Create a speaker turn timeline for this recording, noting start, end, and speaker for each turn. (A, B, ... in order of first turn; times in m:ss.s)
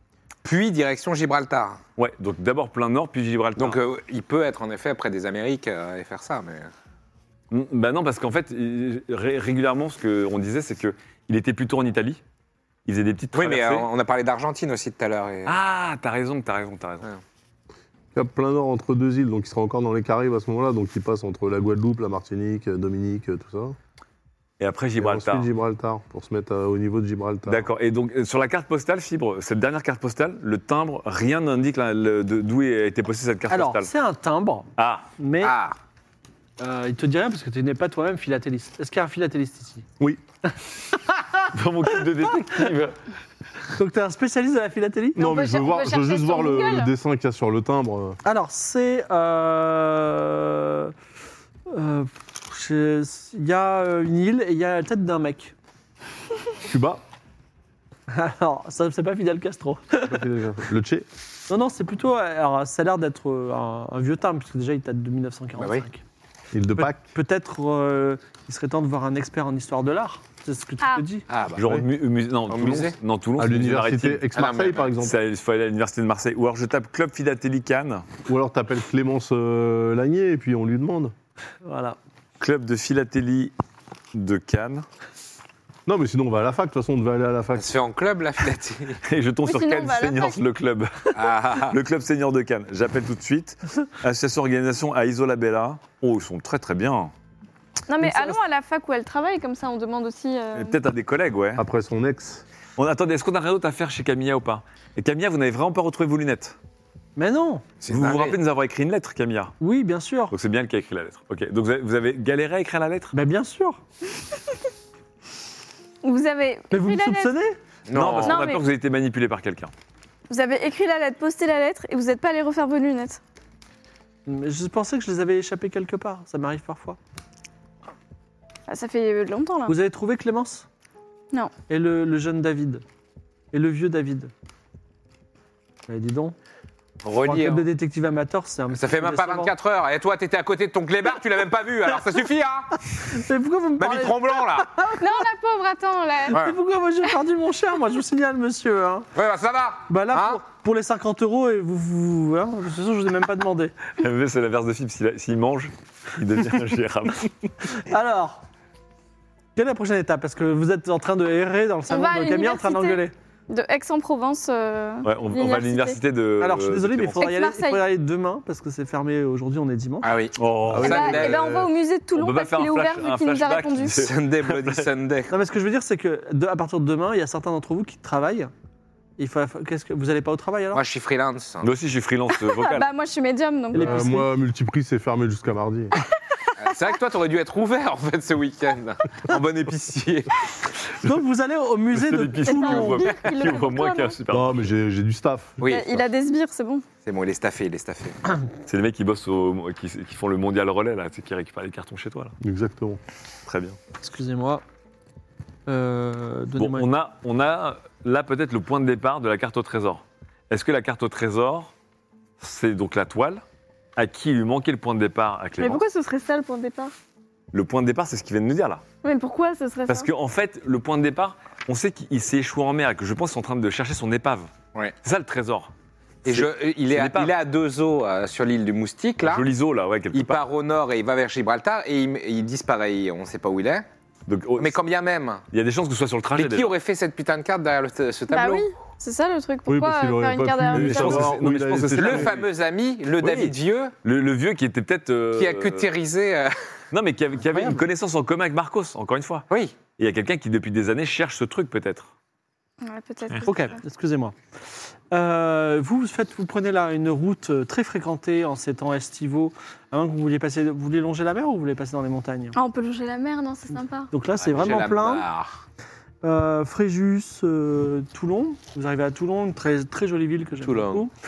0:00.4-0:01.8 A
0:02.0-0:03.8 B
0:03.6-0:06.7 A
0:07.5-0:12.2 B
0:12.8-0:13.9 B
0:13.3-0:15.6 A
0:15.4-0:17.1 B
0:18.1-0:23.8 C
0:24.6-0:25.5 B
0:25.0-0:27.7 C
0:27.5-0:33.9 B
0:33.5-0:35.5 D
0:34.8-0:35.1 B
0:35.4-0:35.8 A
0:36.6-0:39.8 D
0:41.0-0:41.4 D
0:41.5-0:43.0 B
0:43.7-0:45.3 D
0:45.2-0:48.2 C
0:45.2-0:46.9 E
0:48.2-0:50.9 D
0:51.7-0:55.5 D
0:56.6-0:57.0 C
0:58.1-1:00.2 D
1:00.0-1:01.0 C
1:01.5-1:06.0 D
1:05.6-1:05.8 A
1:06.5-1:07.0 C
1:06.8-1:11.2 D
1:11.3-1:11.6 A
1:11.6-1:14.3 B
1:12.5-1:13.0 A
1:13.4-1:15.1 C
1:14.3-1:14.9 A
1:15.0-1:18.0 B
1:18.3-1:21.1 C
1:21.6-1:22.0 D
1:22.4-1:23.5 B
1:24.1-1:24.8 B
1:25.8-1:27.7 C
1:27.5-1:29.0 A
1:29.0-1:37.1 B
1:29.4-1:30.4 E
1:31.1-1:31.8 A
1:37.9-1:40.8 E
1:38.0-1:38.4 D
1:40.5-1:41.6 B
1:41.6-1:42.4 C
1:42.8-1:46.6 B
1:47.2-1:47.6 D
1:47.8-1:48.4 A
1:47.9-1:49.5 B
1:49.6-1:50.3 D
1:50.3-1:53.1 B
1:53.1-1:53.8 D
1:56.0-1:57.3 E
1:56.7-1:57.6 D
1:57.9-1:58.4 A
1:57.9-1:59.7 B
1:58.2-1:58.6 E
2:00.3-2:03.2 E
2:04.2-2:07.0 D
2:08.7-2:09.8 E
2:09.7-2:10.6 D
2:11.7-2:12.8 D
2:13.5-2:14.3 D
2:15.9-2:16.4 D
2:17.0-2:17.6 A
2:17.2-2:19.5 D
2:18.7-2:22.8 A
2:22.9-2:25.1 D
2:23.8-2:24.7 A
2:25.0-2:26.4 E
2:26.3-2:26.5 A
2:26.3-2:29.1 D
2:29.1-2:30.4 A
2:29.9-2:33.7 D
2:34.0-2:37.3 B
2:37.6-2:38.4 D
2:39.6-2:43.1 D
2:41.9-2:46.0 E
2:45.0-2:47.2 B
2:46.4-2:50.1 D
2:47.2-2:47.8 E
2:50.0-2:51.5 A
2:50.4-2:51.3 B
2:50.7-2:51.7 C
2:50.8-2:54.0 E
2:52.1-2:54.9 B
2:54.0-2:55.3 A
2:55.3-2:58.5 D
2:59.2-3:00.8 D
3:00.7-3:01.7 A
3:01.6-3:02.9 B
3:02.3-3:04.1 E
3:03.7-3:04.3 D
3:03.7-3:05.9 C
3:06.6-3:10.3 A
3:11.0-3:13.0 D
3:11.9-3:14.7 B
3:12.4-3:14.2 E
3:14.3-3:15.6 C
3:15.6-3:16.0 A
3:15.6-3:16.8 E
3:17.0-3:18.2 A
3:18.6-3:22.3 B
3:22.4-3:23.0 C
3:23.4-3:23.8 B
3:24.0-3:24.6 D
3:25.7-3:26.9 D
3:26.6-3:31.7 B
3:32.4-3:33.4 B
3:34.0-3:35.8 B
3:35.6-3:36.9 E
3:37.5-3:38.8 B
3:39.0-3:40.1 E
3:39.9-3:44.5 B
3:45.0-3:45.7 B
3:46.2-3:49.4 A
3:46.2-3:47.3 B
3:49.2-3:50.4 B
3:50.1-3:53.8 A
3:54.3-3:54.8 B
3:54.6-3:55.4 A
3:55.5-3:56.7 B
3:56.3-3:58.6 A
3:58.3-4:01.4 E
3:59.7-4:02.4 C
4:00.7-4:02.5 B
4:01.9-4:03.9 A
4:03.2-4:03.5 B
4:04.0-4:05.9 B
4:05.3-4:06.6 A
4:06.9-4:09.4 B
4:07.5-4:07.8 A
4:09.5-4:09.8 A
4:10.0-4:12.1 B
4:12.8-4:13.8 E
4:13.4-4:14.3 D
4:15.1-4:22.6 D
4:22.5-4:24.1 E
4:24.1-4:25.2 D
4:24.4-4:25.6 A
4:26.2-4:31.1 D
4:30.6-4:31.0 A